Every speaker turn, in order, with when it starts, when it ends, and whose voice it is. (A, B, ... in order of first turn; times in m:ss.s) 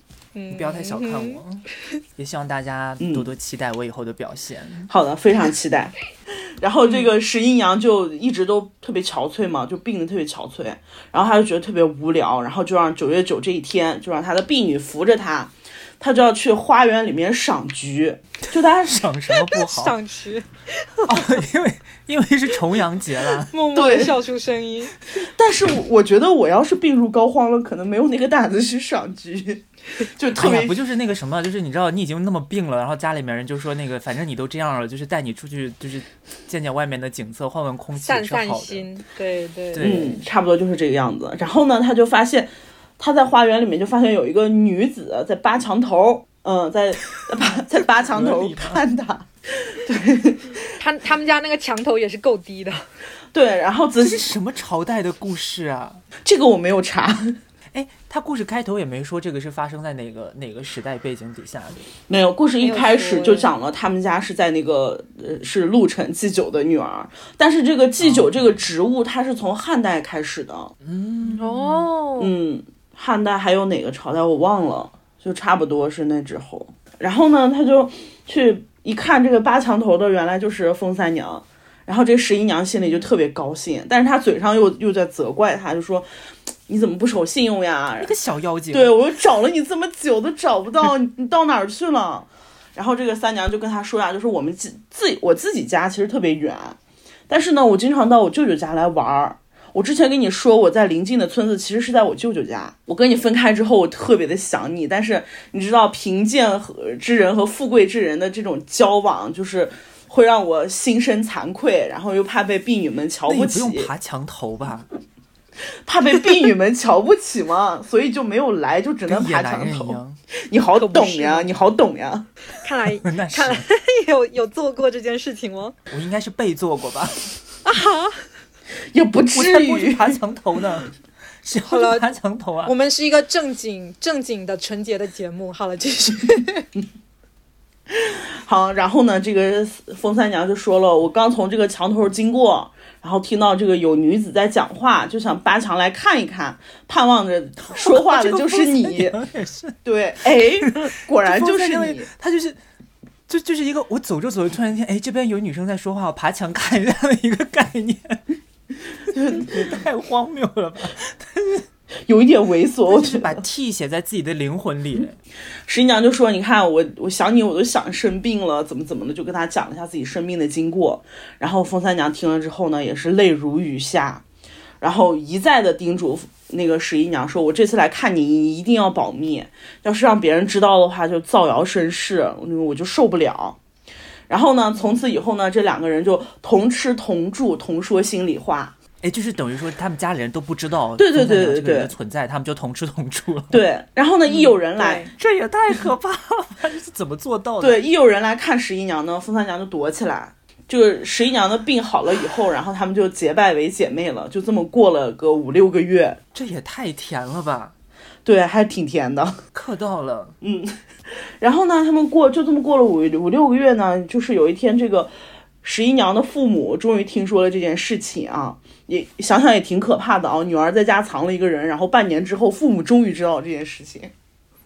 0:00.3-0:01.4 A
0:00.5-0:04.9 B
0:03.0-0:03.3 C
0:04.9-0:19.1 C
0:18.5-0:20.0 B
0:19.3-0:21.3 A
0:21.1-0:23.6 B
0:23.4-0:25.0 A
0:23.7-0:24.2 C
0:25.2-0:30.8 C
0:30.3-0:38.8 B
0:38.0-0:40.0 A
0:39.7-0:40.2 B
0:39.8-0:50.8 C
0:47.4-0:48.8 B
0:50.8-0:52.9 A
0:53.3-0:54.3 C
0:54.0-0:56.0 B
0:56.2-0:57.4 C
0:57.7-1:01.9 B
1:02.1-1:10.7 C
1:02.6-1:03.5 A
1:08.0-1:08.5 B
1:10.8-1:11.9 B
1:11.3-1:12.3 A
1:12.2-1:26.1 C
1:26.7-1:28.1 C
1:28.0-1:28.9 B
1:28.7-1:36.8 C
1:37.3-1:53.9 C
1:53.3-1:54.9 B
1:55.9-2:02.3 C
1:59.1-2:00.2 B
2:00.8-2:01.5 A
2:02.6-2:05.8 A
2:02.9-2:03.7 B
2:05.9-2:07.3 B
2:07.6-2:08.3 A
2:08.9-2:10.2 C
2:09.3-2:10.9 B
2:11.4-2:12.7 B
2:11.7-2:12.1 A
2:12.6-2:16.7 A
2:17.9-2:29.2 C
2:27.6-2:29.8 B
2:29.8-2:32.1 C
2:30.4-2:32.6 B
2:33.3-2:38.3 B
2:39.1-2:41.7 B
2:39.1-2:39.6 C
2:42.1-2:43.4 C
2:42.9-2:45.2 B
2:45.7-2:54.2 C
2:54.8-3:03.6 C
3:04.3-3:08.8 C
3:09.0-3:13.6 B
3:11.0-3:11.9 C
3:13.5-3:15.1 C
3:14.3-3:15.1 A
3:15.2-3:17.8 B
3:17.6-3:26.2 C
3:26.3-3:27.7 B
3:28.2-3:29.4 C
3:29.5-3:30.4 B
3:30.4-3:30.8 C
3:31.4-3:35.1 C
3:35.6-3:44.1 C